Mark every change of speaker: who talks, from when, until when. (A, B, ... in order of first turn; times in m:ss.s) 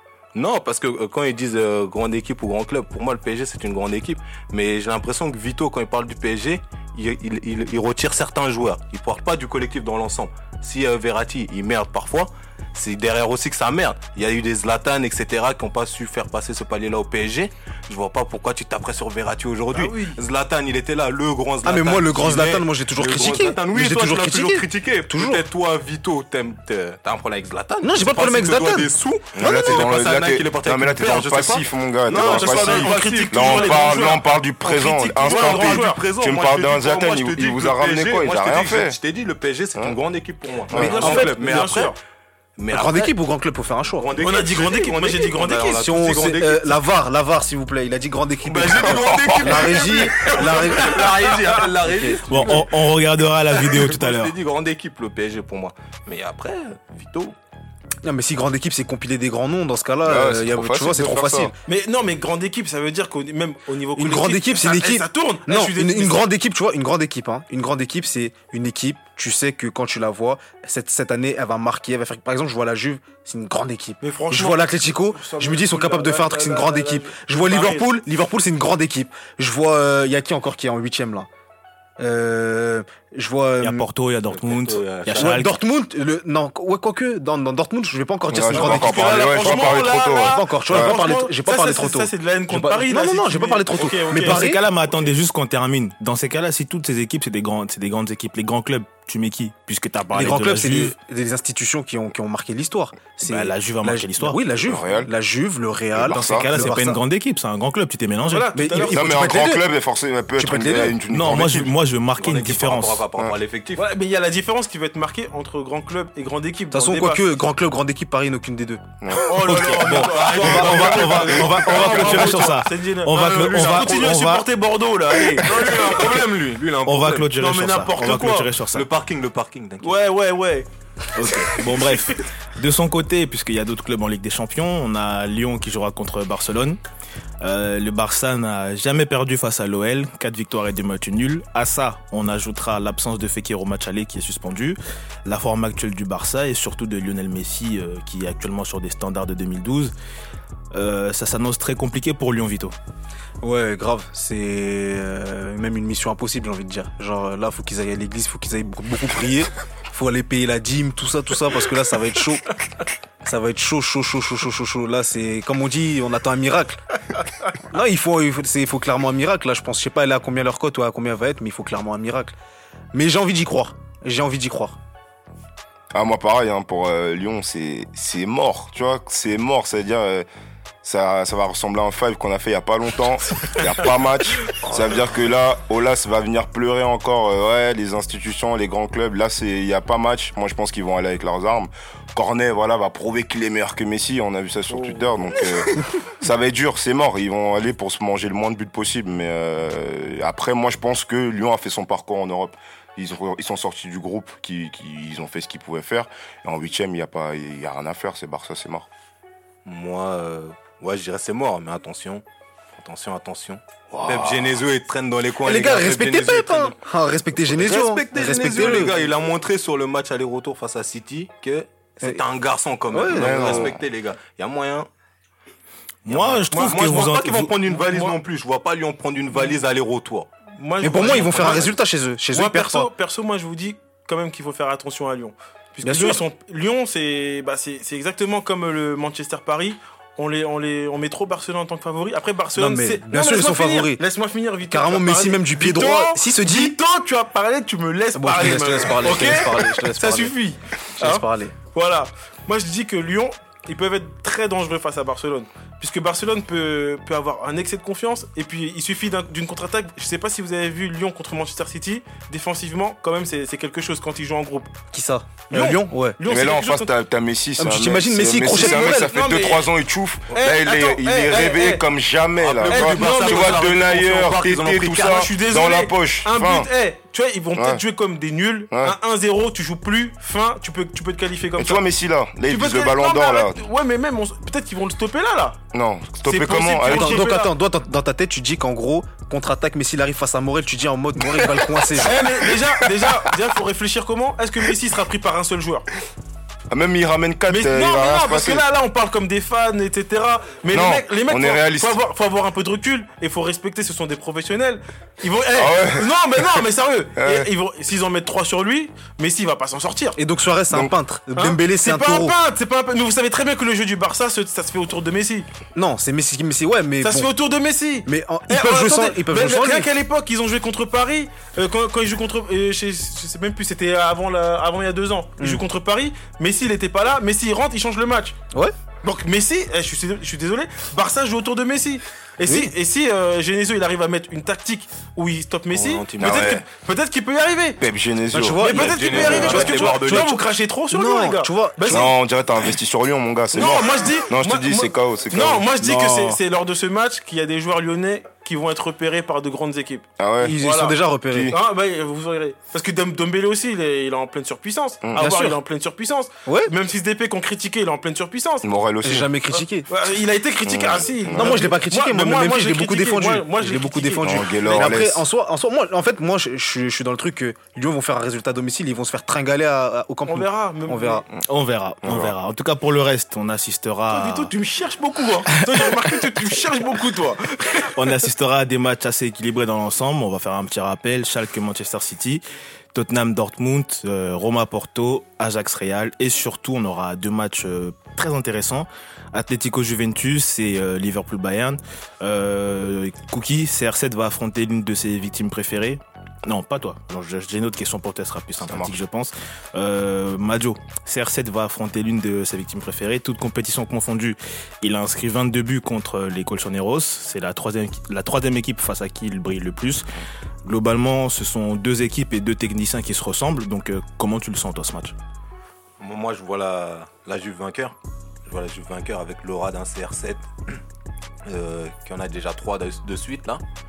0:00.3-0:34.2 A
0:19.7-0:20.2 B
0:21.6-0:25.4 C
0:27.8-0:29.9 C
0:29.4-0:39.0 D
0:32.1-0:36.0 B
0:35.2-0:42.0 A
0:40.7-0:41.2 D
0:40.8-0:41.4 C
0:40.8-0:42.0 B
0:42.6-0:43.1 A
0:42.7-0:44.1 C
0:43.9-0:46.9 A
0:44.2-0:45.9 B
0:45.8-0:51.3 C
0:48.4-0:52.8 A
0:49.0-0:49.7 D
0:51.0-0:51.5 B
0:51.8-0:52.2 C
0:52.3-0:54.3 E
0:53.5-0:57.4 A
0:58.0-1:01.6 C
1:00.1-1:01.5 D
1:01.7-1:06.2 B
1:04.0-1:21.3 C
1:14.0-1:18.0 B
1:22.0-1:23.9 C
1:23.6-1:25.6 E
1:24.3-1:25.4 A
1:25.2-1:34.6 C
1:28.3-1:31.0 D
1:28.5-1:34.4 B
1:34.2-1:41.0 E
1:40.1-1:47.0 C
1:43.2-1:44.4 E
1:44.6-1:45.1 D
1:46.0-1:46.6 D
1:46.0-1:48.5 E
1:48.2-1:49.1 B
1:48.5-1:49.7 C
1:48.8-1:51.8 D
1:50.4-1:51.0 C
1:51.1-1:53.0 E
1:52.2-1:53.9 A
1:53.8-1:57.2 B
1:56.7-1:58.8 C
1:59.0-1:59.4 D
1:59.2-2:06.1 B
1:59.3-2:04.5 E
1:59.5-2:02.6 A
2:03.2-2:04.2 A
2:05.2-2:07.4 A
2:06.8-2:08.9 E
2:07.4-2:08.5 B
2:08.7-2:10.0 A
2:09.8-2:10.7 B
2:11.1-2:16.8 E
2:17.4-2:29.9 E
2:30.7-2:32.8 E
2:33.4-2:42.5 C
2:43.2-2:46.8 C
2:47.7-2:52.4 C
2:52.9-2:54.8 C
2:55.9-3:00.3 D
3:00.8-3:28.9 D
3:14.7-3:15.7 B
3:29.6-3:32.2 A
3:32.8-3:36.8 A
3:33.9-3:34.5 D
3:35.4-3:39.0 C
3:37.5-3:44.9 A
3:42.9-3:43.7 C
3:43.1-3:43.8 D
3:46.1-3:47.6 E
3:46.1-3:50.3 A
3:46.5-3:47.0 B
3:47.8-3:48.2 B
3:50.6-3:51.8 B
3:50.8-3:52.9 C
3:52.3-4:24.8 B
3:55.8-3:56.2 C
4:02.6-4:04.0 C
4:04.7-4:06.8 C
4:08.2-4:10.4 C
4:11.0-4:11.6 C
4:24.9-4:26.2 C
4:25.5-4:26.9 B
4:26.2-4:36.7 D
4:27.6-4:29.2 C
4:28.5-4:29.7 B
4:30.3-4:31.8 B
4:32.4-4:35.3 A
4:32.7-4:33.7 B
4:35.0-4:41.8 B
4:37.6-4:37.8 D
4:38.7-4:39.0 D
4:41.6-4:43.6 D
4:42.5-4:45.6 B
4:45.7-4:47.3 D
4:46.2-4:47.5 B
4:46.9-4:52.5 C
4:51.9-4:55.9 B
4:56.7-4:58.7 D
4:57.5-5:10.2 B
5:00.7-5:02.0 D
5:05.5-5:06.5 D
5:07.2-5:07.5 D
5:10.2-5:12.4 C
5:11.4-5:15.5 B
5:15.8-5:17.3 C
5:17.0-5:28.4 B
5:18.1-5:19.9 C
5:25.4-5:25.6 C
5:29.0-5:37.8 B
5:32.5-5:32.7 C
5:35.7-5:36.6 A
5:36.2-5:36.6 D
5:37.8-5:38.7 D
5:38.3-5:42.1 C
5:38.6-5:42.1 B
5:38.6-5:40.5 A
5:41.9-5:45.8 D
5:43.5-5:51.0 B
5:45.8-5:46.4 C
5:50.2-5:50.6 D
5:50.4-5:51.6 C
5:51.3-5:51.6 D
5:51.5-5:58.7 B
5:55.0-5:55.3 D
5:55.2-5:55.6 C
5:56.5-5:56.7 C
5:58.6-5:59.3 D
5:59.0-5:59.9 C
5:59.9-6:04.9 B
6:00.6-6:01.8 D
6:01.3-6:11.2 C
6:04.2-6:05.2 D
6:10.3-6:11.3 B
6:11.4-6:14.5 E
6:12.0-6:12.4 D
6:14.1-6:18.0 B
6:17.9-6:22.4 E
6:22.9-6:50.1 E
6:38.6-6:39.0 D
6:50.6-6:55.2 E
6:56.0-7:00.8 A
7:01.4-7:03.6 A